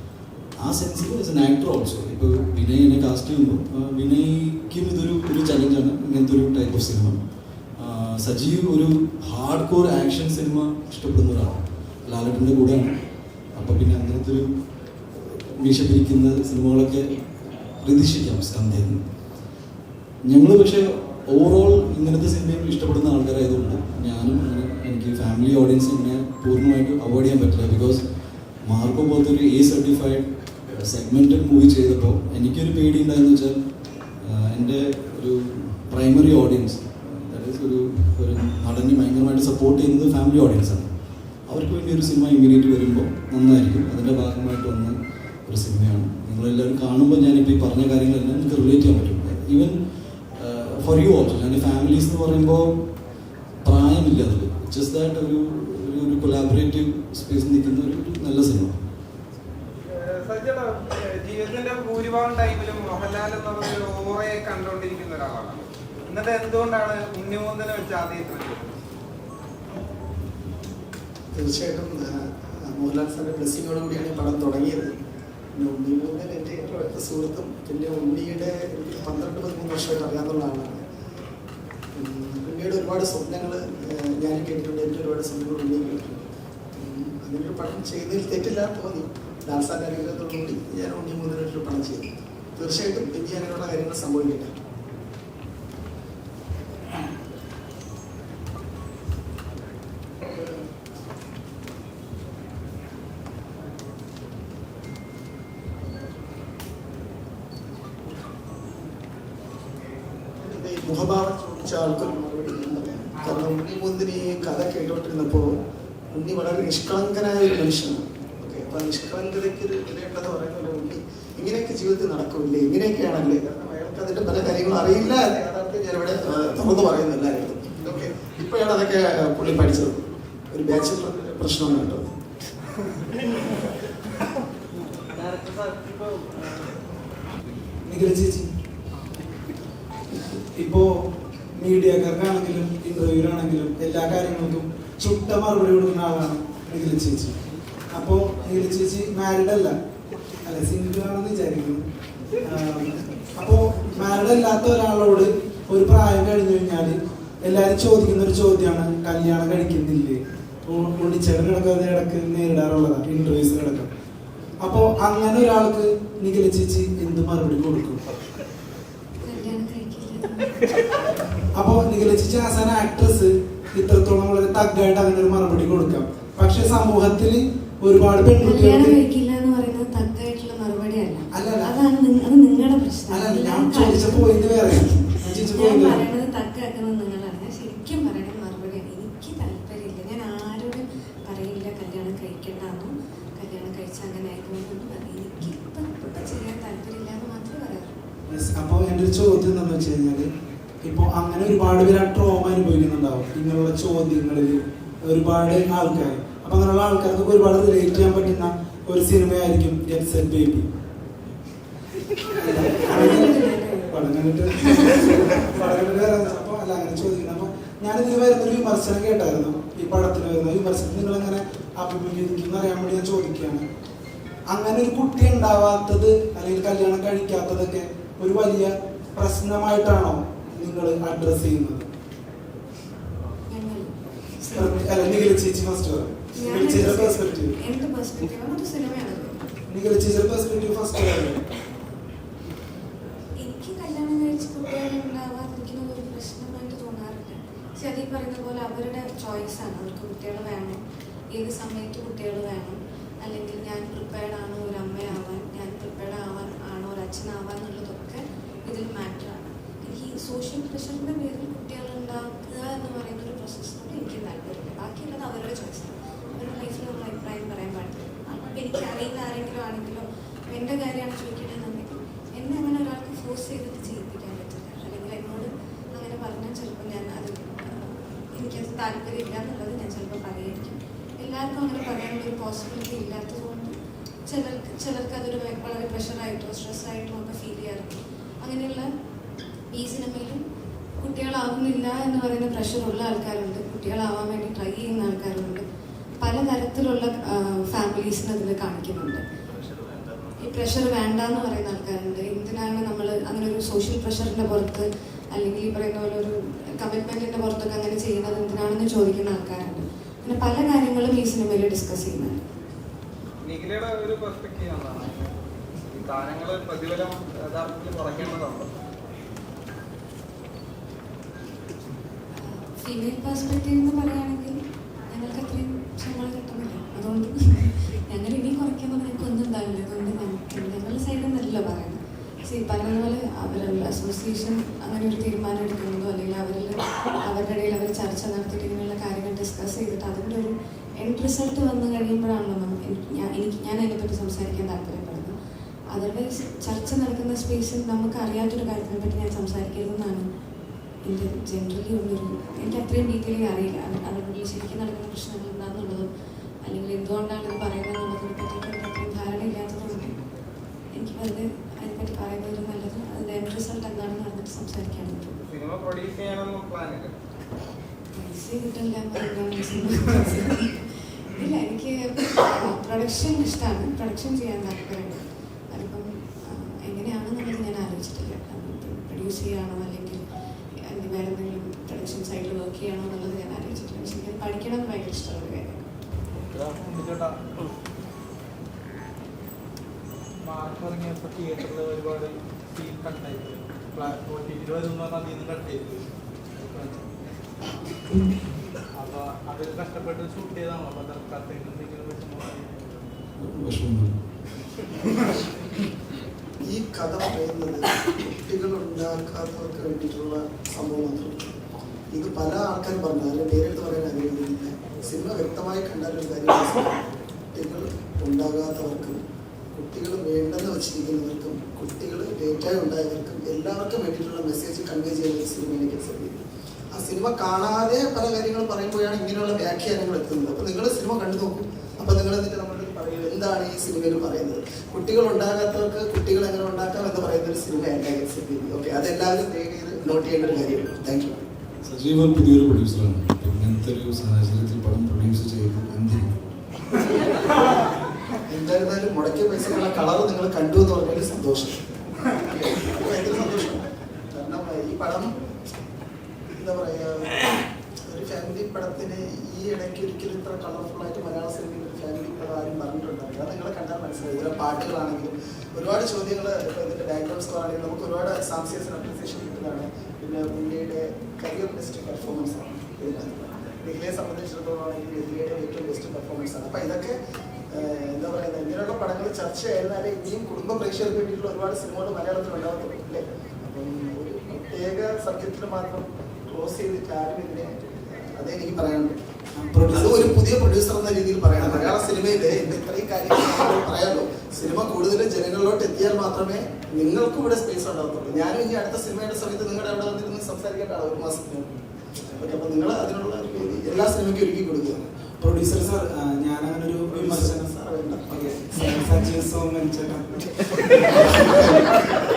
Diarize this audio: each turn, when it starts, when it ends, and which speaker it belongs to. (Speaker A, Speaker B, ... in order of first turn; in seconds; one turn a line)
Speaker A: 0.6-7.2
Speaker A: 7.8-12.9
Speaker A: 13.5-14.5
Speaker A: 15.1-17.2
Speaker A: 17.8-19.0
Speaker A: 20.2-28.0
Speaker A: 28.6-33.6
Speaker A: 34.2-40.9
Speaker A: 41.5-49.8
Speaker A: 50.3-52.8
Speaker A: 53.6-58.8
Speaker B: 59.9-68.7
Speaker C: 71.3-74.9
Speaker C: 75.5-80.8
Speaker C: 81.9-86.2
Speaker C: 86.8-94.5
Speaker C: 100.2-100.6
Speaker C: 110.4-115.5
Speaker C: 116.1-132.1
Speaker D: 135.2-136.2
Speaker E: 137.9-138.5
Speaker E: 140.6-140.9
Speaker E: 141.6-147.4
Speaker E: 147.9-149.8
Speaker E: 150.4-151.8
Speaker E: 152.4-163.9
Speaker E: 164.6-168.0
Speaker F: 169.2-170.6
Speaker E: 171.6-179.0
Speaker F: 178.3-198.0
Speaker E: 181.3-181.7
Speaker E: 183.1-186.0
Speaker E: 198.3-200.3
Speaker E: 200.8-210.7
Speaker E: 212.3-223.6
Speaker F: 212.6-213.9
Speaker F: 214.7-215.0
Speaker E: 224.5-231.9
Speaker F: 233.5-234.9
Speaker E: 234.6-237.6
Speaker F: 236.4-239.5
Speaker E: 239.7-241.4
Speaker F: 243.4-250.8
Speaker F: 251.3-283.7
Speaker F: 284.3-288.9
Speaker F: 289.7-290.4
Speaker F: 291.0-295.6
Speaker F: 296.2-299.2
Speaker F: 300.4-312.4
Speaker B: 313.4-315.3
Speaker B: 315.9-318.7
Speaker F: 322.4-324.6
Speaker F: 325.1-345.3
Speaker F: 345.9-350.3
Speaker F: 351.1-356.1
Speaker F: 356.6-360.1
Speaker F: 360.9-365.4
Speaker B: 365.5-367.1
Speaker F: 368.1-380.2
Speaker F: 380.9-385.8
Speaker D: 386.8-387.1
Speaker D: 390.7-391.0
Speaker D: 394.0-395.8
Speaker D: 399.0-402.7
Speaker A: 403.4-404.1
Speaker C: 406.6-411.5
Speaker C: 412.1-416.9
Speaker C: 417.5-419.2
Speaker C: 419.7-441.4
Speaker A: 441.8-446.4
Speaker C: 448.5-451.8
Speaker C: 452.3-455.3
Speaker C: 456.6-457.5
Speaker C: 458.1-477.2
Speaker C: 477.7-489.2
Speaker E: 489.6-490.4
Speaker C: 489.9-501.7
Speaker E: 491.6-491.9
Speaker C: 502.3-505.1
Speaker E: 505.4-507.7
Speaker C: 507.1-508.3
Speaker E: 508.3-511.7